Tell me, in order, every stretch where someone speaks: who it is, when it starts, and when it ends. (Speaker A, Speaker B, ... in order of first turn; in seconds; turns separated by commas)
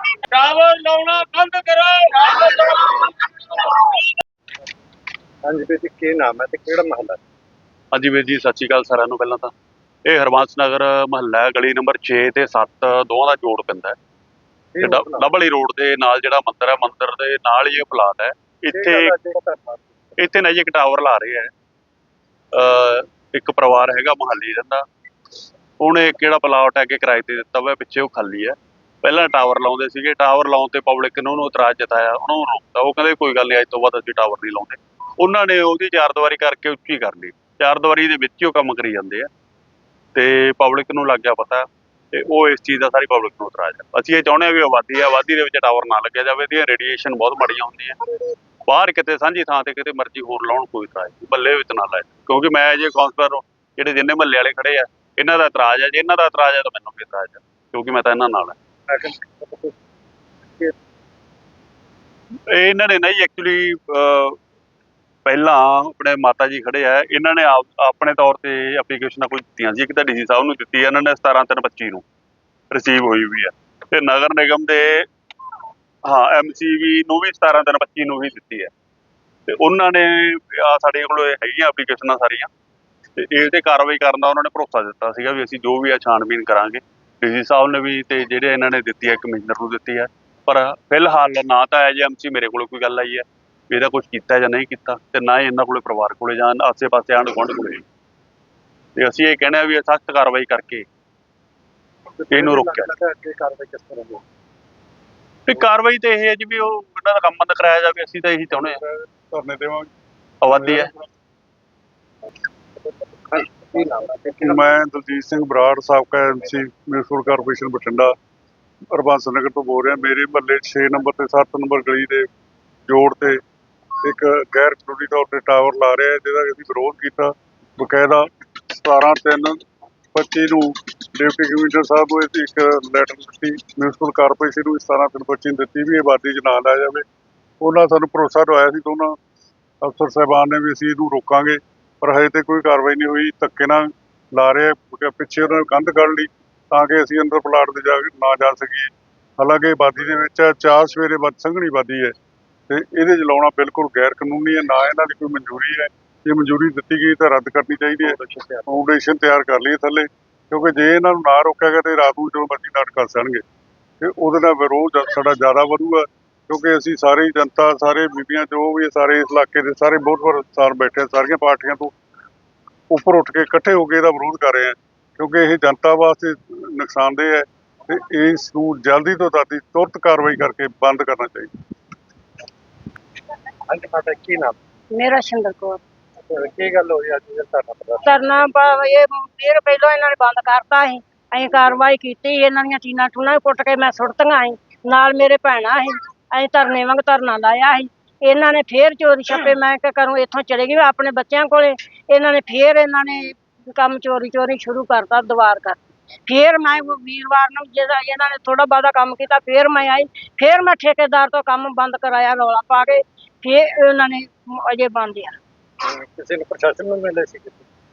Speaker A: 0.3-4.0, Speaker B: 5.4-7.2, Speaker C: 7.9-9.5, Speaker C: 10.1-13.9, Speaker B: 14.7-15.3, Speaker C: 14.8-19.1, Speaker B: 18.7-19.9, Speaker C: 20.2-21.5, Speaker C: 22.5-24.8, Speaker C: 25.8-39.3, Speaker C: 40.1-48.0, Speaker C: 48.7-58.5, Speaker B: 58.9-59.7, Speaker C: 62.5-64.4, Speaker C: 65.2-72.0, Speaker C: 72.7-75.1, Speaker C: 76.1-78.7, Speaker C: 79.5-82.5, Speaker C: 83.2-97.8, Speaker C: 99.0-100.8, Speaker B: 102.2-104.2, Speaker C: 102.3-102.9, Speaker C: 105.5-108.8, Speaker D: 108.6-109.9, Speaker C: 110.4-110.9, Speaker D: 110.5-110.9, Speaker B: 112.8-114.7, Speaker D: 114.4-118.1, Speaker D: 118.9-122.3, Speaker D: 122.9-123.4, Speaker D: 124.0-129.6, Speaker D: 130.1-137.0, Speaker D: 137.6-139.2, Speaker D: 139.8-152.1, Speaker D: 152.7-158.2, Speaker B: 158.0-158.7, Speaker D: 158.7-163.4, Speaker D: 164.0-171.9, Speaker D: 172.9-181.5, Speaker B: 183.7-184.6, Speaker E: 184.9-185.8, Speaker B: 186.3-188.1, Speaker E: 188.0-215.4, Speaker B: 215.8-217.6